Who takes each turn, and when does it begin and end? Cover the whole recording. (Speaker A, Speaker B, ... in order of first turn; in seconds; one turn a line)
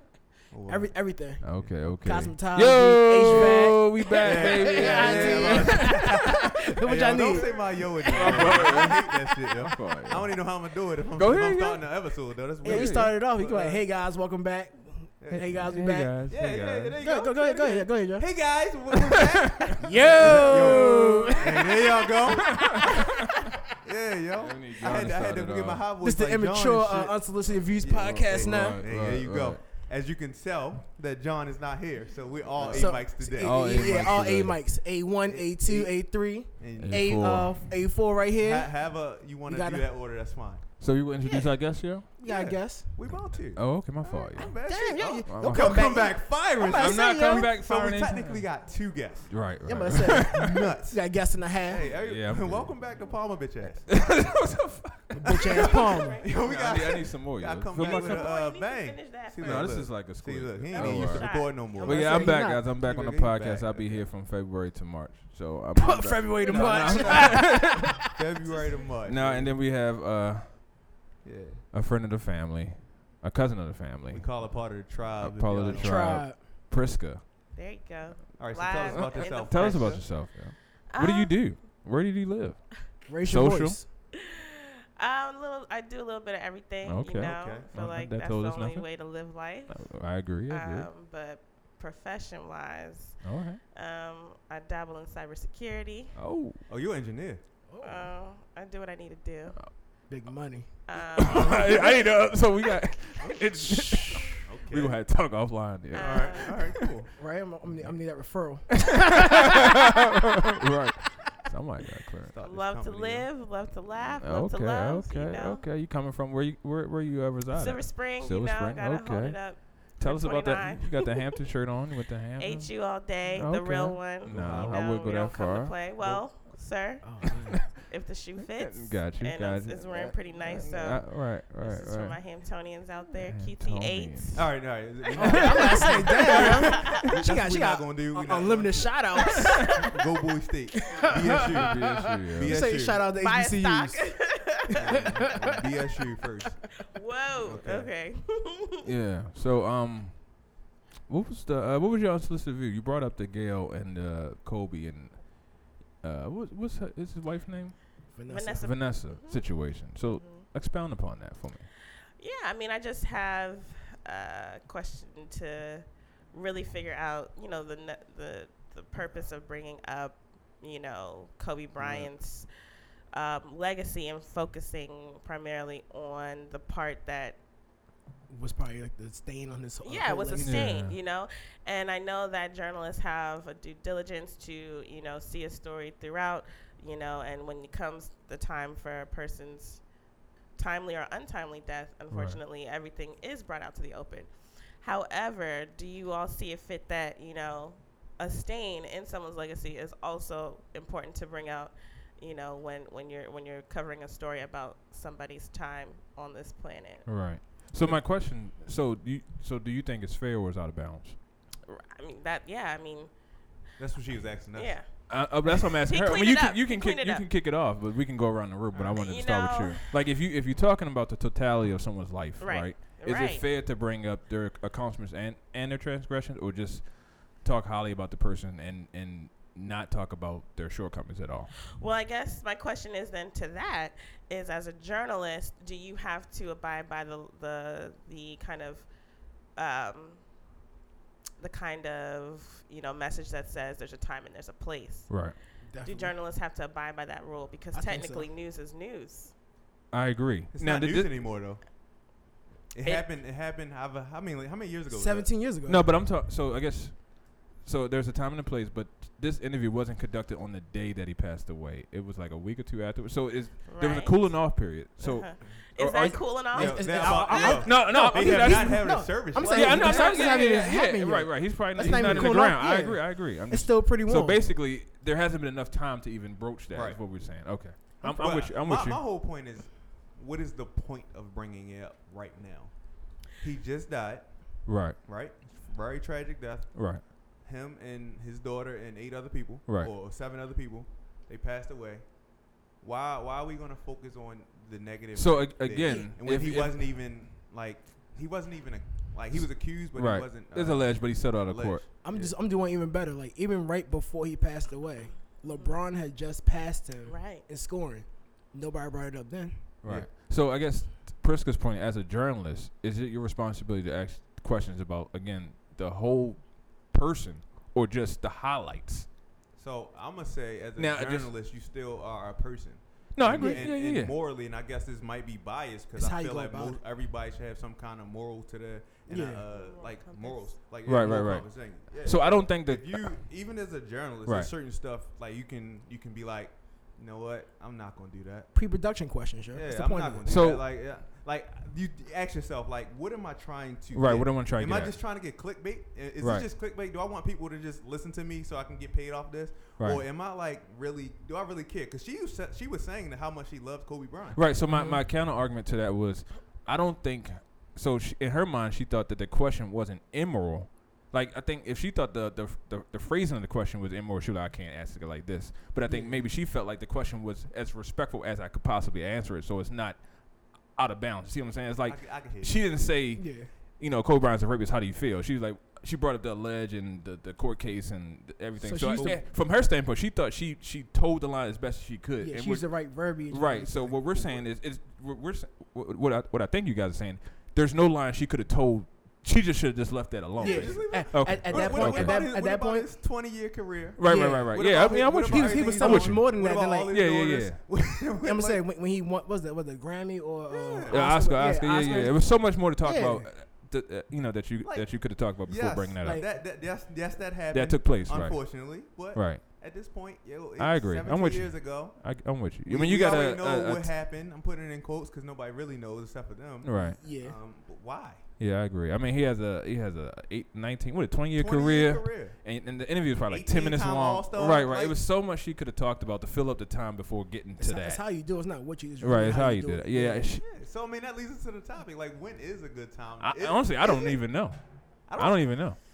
Speaker A: 0.5-1.9
Speaker B: 0.7-9.1
Speaker C: 1.4-6.4
Speaker A: 3.3-3.6
Speaker A: 4.2-13.8
Speaker C: 8.1-10.3
Speaker C: 11.1-11.9
Speaker B: 12.6-16.3
Speaker C: 12.6-13.1
Speaker A: 15.2-22.9
Speaker C: 15.3-16.9
Speaker B: 17.0-18.3
Speaker C: 19.6-21.3
Speaker B: 19.8-22.1
Speaker B: 22.6-22.9
Speaker C: 22.6-23.1
Speaker A: 23.7-34.2
Speaker C: 24.4-25.8
Speaker B: 26.0-28.8
Speaker C: 28.3-29.7
Speaker C: 32.5-34.6
Speaker B: 32.6-38.9
Speaker A: 35.2-37.4
Speaker C: 36.8-37.7
Speaker A: 38.4-40.7
Speaker B: 39.4-39.9
Speaker C: 40.8-42.1
Speaker B: 41.2-43.0
Speaker A: 42.2-54.0
Speaker C: 43.3-48.7
Speaker B: 44.6-47.5
Speaker C: 49.3-50.5
Speaker B: 49.6-51.9
Speaker C: 51.9-52.8
Speaker C: 53.9-58.3
Speaker B: 55.1-56.2
Speaker D: 55.6-56.8
Speaker A: 56.2-64.1
Speaker D: 57.8-59.9
Speaker C: 59.4-67.7
Speaker D: 60.7-61.9
Speaker B: 61.8-62.6
Speaker B: 65.8-68.0
Speaker A: 66.5-69.5
Speaker D: 66.8-67.5
Speaker D: 68.5-68.8
Speaker C: 69.0-70.7
Speaker A: 71.2-71.6
Speaker C: 71.7-74.5
Speaker A: 74.1-76.2
Speaker C: 75.2-77.2
Speaker B: 75.8-76.4
Speaker D: 77.5-80.1
Speaker A: 78.4-80.1
Speaker C: 79.0-83.8
Speaker D: 80.9-81.5
Speaker B: 83.1-83.8
Speaker D: 85.0-96.2
Speaker C: 86.8-90.9
Speaker A: 87.3-87.7
Speaker C: 93.2-93.6
Speaker C: 96.2-96.6
Speaker A: 96.7-97.4
Speaker B: 97.7-98.1
Speaker D: 97.8-99.6
Speaker B: 100.1-100.8
Speaker D: 100.9-101.8
Speaker C: 101.2-107.0
Speaker A: 101.2-101.7
Speaker B: 103.2-104.2
Speaker A: 104.4-105.0
Speaker D: 105.9-106.6
Speaker A: 105.9-107.1
Speaker B: 107.2-109.3
Speaker C: 108.9-112.3
Speaker A: 112.3-113.3
Speaker D: 112.4-115.7
Speaker C: 114.2-126.0
Speaker D: 117.5-121.3
Speaker D: 122.4-134.5
Speaker A: 124.3-124.9
Speaker A: 126.0-126.2
Speaker B: 127.0-127.7
Speaker C: 128.6-132.2
Speaker B: 129.7-130.6
Speaker C: 133.2-134.5
Speaker A: 134.3-143.1
Speaker B: 135.1-139.9
Speaker C: 135.2-135.9
Speaker D: 135.9-136.9
Speaker B: 140.9-145.3
Speaker C: 141.6-142.6
Speaker D: 143.2-144.9
Speaker A: 144.7-146.7
Speaker D: 146.9-148.8
Speaker A: 147.4-147.9
Speaker C: 148.8-161.7
Speaker B: 158.1-158.7
Speaker D: 158.3-160.4
Speaker D: 162.2-177.4
Speaker B: 178.3-180.7
Speaker D: 179.8-189.9
Speaker C: 180.4-180.9
Speaker D: 190.5-207.3
Speaker C: 192.1-192.4
Speaker C: 207.0-211.2
Speaker A: 207.8-208.0
Speaker D: 211.7-213.1
Speaker A: 213.8-214.8
Speaker D: 214.5-215.3
Speaker C: 215.1-231.6
Speaker D: 215.8-217.3
Speaker A: 218.7-219.0
Speaker D: 218.9-219.8
Speaker D: 222.4-223.4
Speaker D: 231.7-240.3
Speaker D: 241.4-249.3
Speaker C: 245.1-245.3
Speaker B: 245.6-246.1
Speaker B: 247.7-248.3
Speaker C: 249.9-251.2
Speaker A: 250.5-251.7
Speaker A: 252.7-255.4
Speaker B: 254.9-255.9
Speaker C: 255.6-266.4
Speaker D: 263.7-267.6
Speaker B: 266.0-274.4
Speaker A: 266.5-270.2
Speaker C: 267.4-279.0
Speaker A: 271.8-272.4
Speaker A: 276.7-277.0
Speaker B: 278.0-278.3
Speaker A: 278.1-302.3
Speaker C: 284.6-285.0
Speaker C: 286.7-287.0
Speaker C: 289.6-289.9
Speaker C: 295.1-297.2
Speaker C: 299.9-301.9
Speaker B: 302.0-309.7
Speaker D: 305.5-305.8
Speaker D: 307.0-307.4
Speaker C: 309.8-319.1
Speaker A: 319.5-338.5
Speaker C: 320.8-321.3
Speaker C: 323.1-324.1
Speaker B: 323.3-323.7
Speaker B: 325.9-326.8
Speaker B: 329.1-329.4
Speaker D: 329.5-330.5
Speaker C: 330.8-333.2
Speaker C: 334.2-334.5
Speaker B: 338.5-340.4
Speaker A: 339.5-354.6
Speaker C: 340.2-340.7
Speaker C: 343.9-345.0
Speaker C: 346.2-346.5
Speaker C: 349.8-350.0
Speaker C: 354.3-392.2
Speaker B: 354.7-355.0
Speaker B: 365.8-366.2
Speaker A: 371.9-372.6
Speaker B: 373.1-373.5
Speaker B: 378.6-379.2
Speaker A: 378.9-379.2
Speaker B: 382.2-384.1
Speaker A: 384.1-384.4
Speaker A: 390.4-398.6
Speaker B: 390.4-392.9
Speaker C: 393.9-396.3
Speaker B: 394.0-397.1
Speaker C: 396.9-397.6
Speaker B: 398.2-403.3
Speaker A: 400.5-401.1
Speaker C: 400.9-406.2
Speaker A: 404.6-412.1
Speaker C: 407.5-409.4
Speaker C: 410.6-413.9
Speaker A: 412.6-418.2
Speaker C: 416.6-417.0
Speaker B: 417.0-417.4
Speaker C: 418.4-428.0
Speaker A: 421.3-422.4
Speaker A: 423.3-425.0
Speaker B: 427.6-430.3
Speaker C: 429.0-430.4
Speaker A: 430.4-434.2
Speaker C: 433.2-434.6
Speaker A: 435.1-435.6
Speaker C: 435.1-435.8